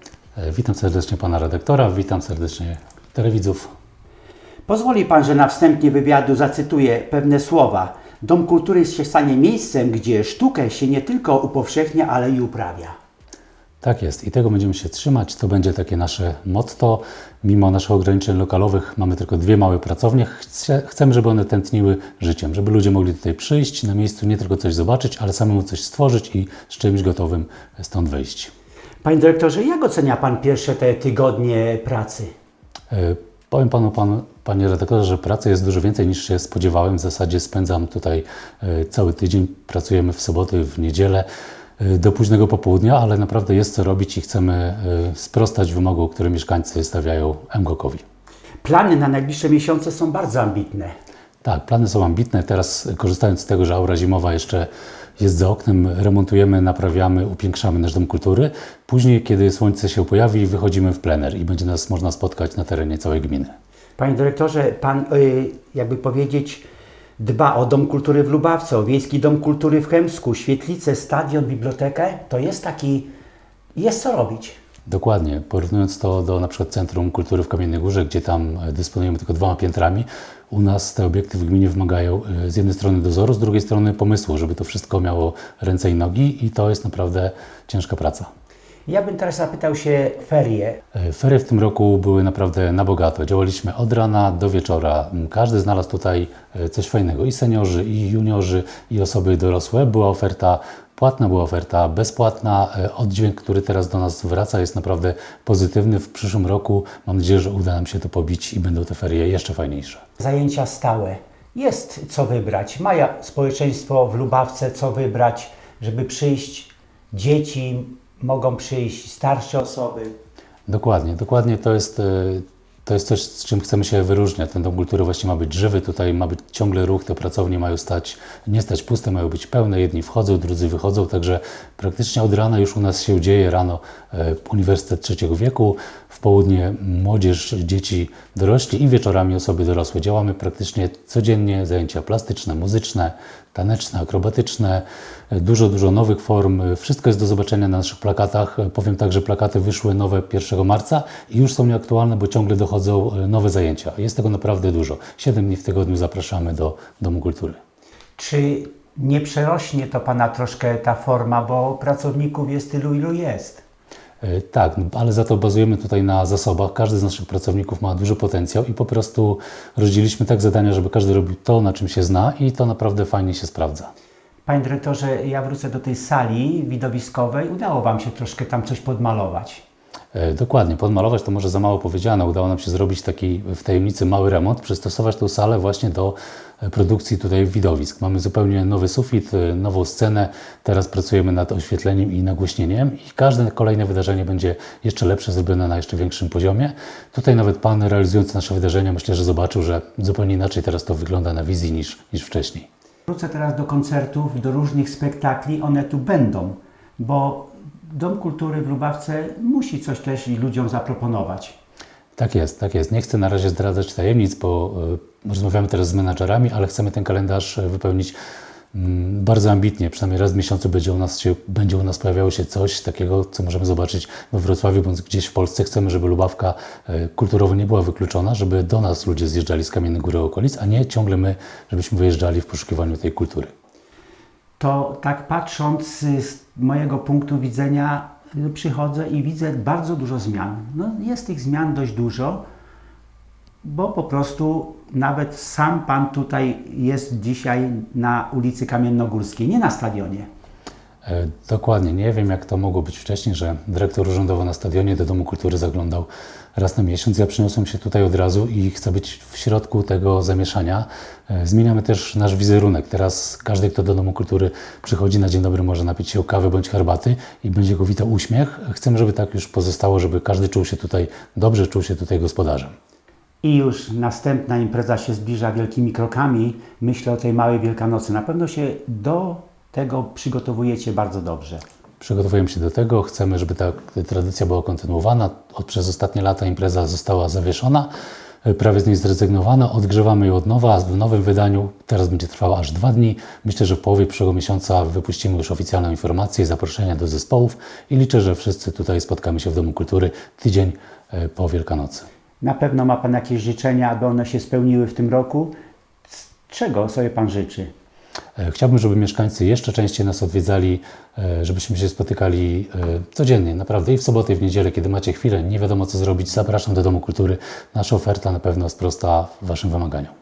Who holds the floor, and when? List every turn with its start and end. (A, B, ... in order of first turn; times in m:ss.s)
0:00.4-0:03.7 A
0:04.7-0:12.9 B
0:13.8-0:28.5 A
0:29.0-0:32.3 B
0:32.9-0:41.2 A
0:41.8-0:48.0 A
0:48.6-0:50.9 B
0:51.4-0:54.7 A
0:55.2-1:03.5 A
1:04.0-1:06.6 B
1:07.2-1:13.1 B
1:13.7-1:14.6 B
1:14.9-1:28.3 A
1:28.9-1:30.8 B
1:30.9-1:50.0 A
1:50.2-2:00.1 B
2:00.7-2:37.6 A
2:38.2-2:43.6 B
2:44.2-2:53.9 A
2:54.4-2:59.6 B
3:00.1-3:22.7 A
3:23.1-3:31.6 B
3:32.2-3:38.1 A
3:38.7-3:53.5 A
3:54.6-4:02.4 B
4:03.6-4:10.3 B
4:11.0-4:32.7 A
4:33.4-4:41.6 B
4:42.0-4:47.9 A
4:48.4-5:02.0 A
5:02.4-5:05.5 B
5:06.1-5:07.7 B
5:08.4-5:20.1 A